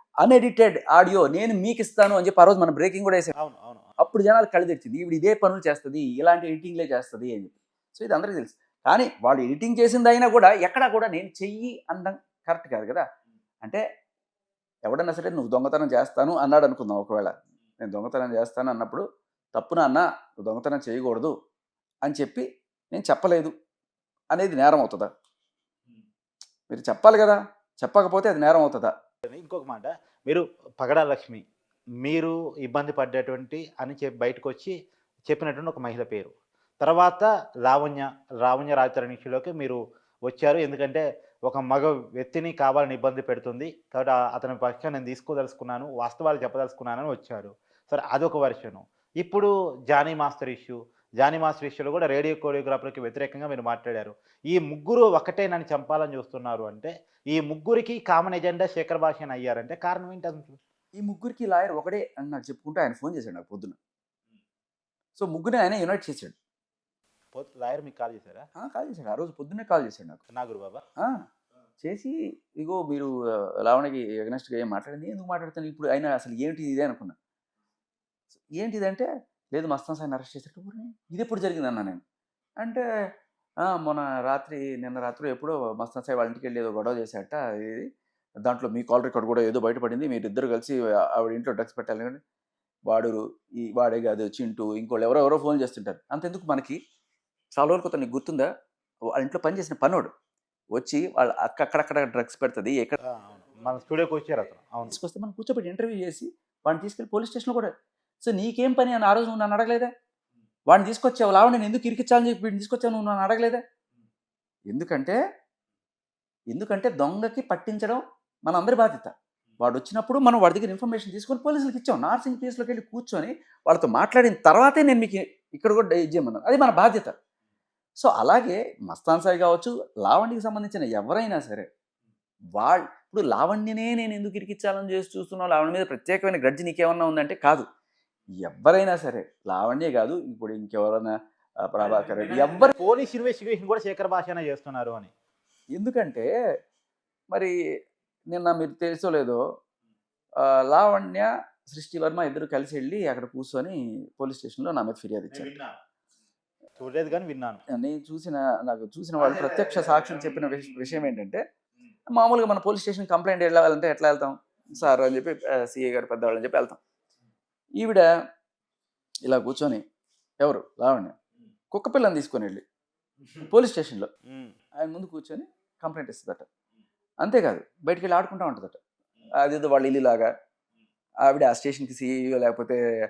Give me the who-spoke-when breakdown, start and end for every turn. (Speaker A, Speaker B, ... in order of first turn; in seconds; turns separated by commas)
Speaker A: 0.2-3.3, Speaker B: 3.4-3.9, Speaker A: 4.0-13.0, Speaker A: 14.8-19.0, Speaker A: 19.5-21.3, Speaker A: 22.1-23.5, Speaker A: 24.3-25.1, Speaker A: 26.7-28.9, Speaker B: 29.3-31.4, Speaker B: 32.0-34.7, Speaker B: 35.3-60.6, Speaker A: 61.0-63.8, Speaker A: 65.2-66.3, Speaker B: 67.3-68.5, Speaker A: 68.6-70.2, Speaker B: 70.3-70.8, Speaker A: 71.8-73.1, Speaker A: 73.6-77.1, Speaker A: 78.6-82.0, Speaker A: 83.7-87.9, Speaker A: 88.4-92.2, Speaker A: 92.9-96.8, Speaker A: 97.5-98.5, Speaker A: 99.1-100.1, Speaker A: 100.8-103.0, Speaker B: 103.0-105.0, Speaker A: 104.9-107.7, Speaker A: 108.2-109.9, Speaker A: 110.7-113.6, Speaker A: 114.7-115.2, Speaker A: 116.5-127.1, Speaker A: 128.0-131.7, Speaker A: 132.6-137.6, Speaker A: 138.4-141.1, Speaker A: 141.6-142.7, Speaker B: 141.8-145.1, Speaker A: 145.7-146.3, Speaker A: 148.3-149.4, Speaker A: 150.4-155.5, Speaker B: 155.3-155.7, Speaker B: 156.8-157.6, Speaker A: 157.7-161.4, Speaker B: 159.3-160.8, Speaker A: 162.1-166.8, Speaker A: 167.8-168.1, Speaker A: 169.2-169.8, Speaker A: 170.4-171.1, Speaker A: 171.7-172.6, Speaker A: 173.4-174.1, Speaker B: 174.3-174.5, Speaker A: 174.8-176.4, Speaker A: 177.2-178.8, Speaker A: 179.4-180.3, Speaker A: 181.2-182.8